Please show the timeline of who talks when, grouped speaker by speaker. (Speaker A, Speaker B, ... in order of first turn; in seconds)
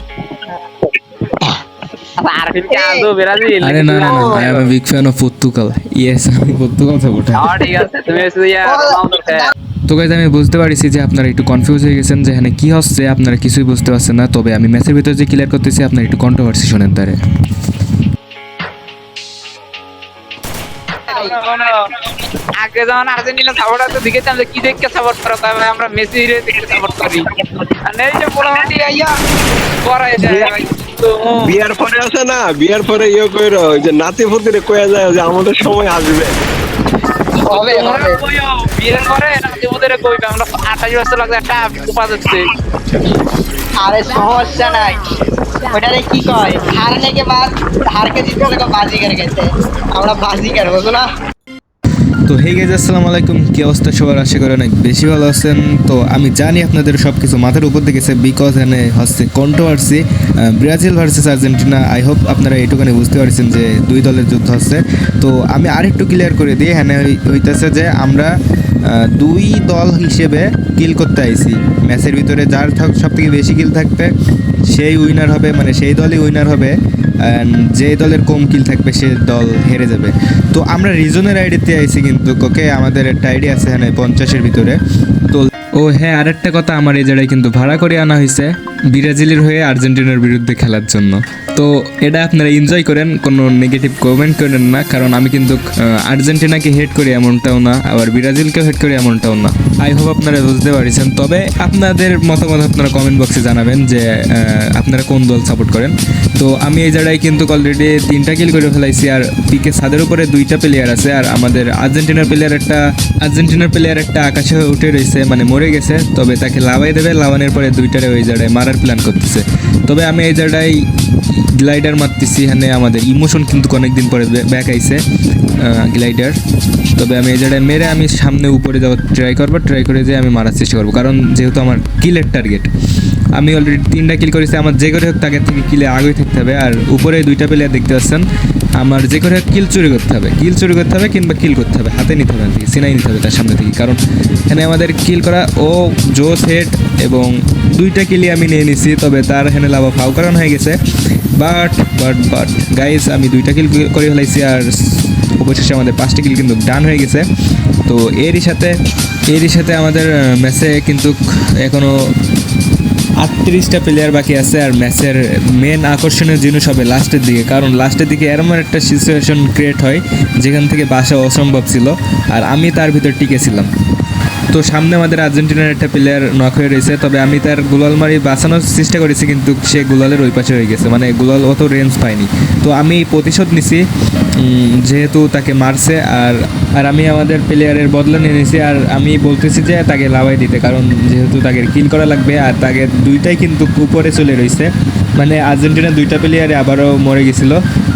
Speaker A: 2.2-4.7, 7.3-9.5, 21.1-27.3, 27.8-28.8, 29.8-31.6, 37.5-42.5
Speaker B: 2.7-3.1, 4.0-4.4, 7.6-9.5, 21.1-21.4, 28.6-29.1, 37.4-38.2, 43.8-45.0, 45.7-51.1
Speaker C: 3.6-7.5, 9.9-17.2, 52.3-125.0, 125.6-126.4, 127.0-132.7, 133.3-150.8, 151.3-157.3, 157.8-158.8, 159.3-162.2, 163.2-173.7, 174.5-197.6
Speaker D: 30.2-30.6, 31.4-36.4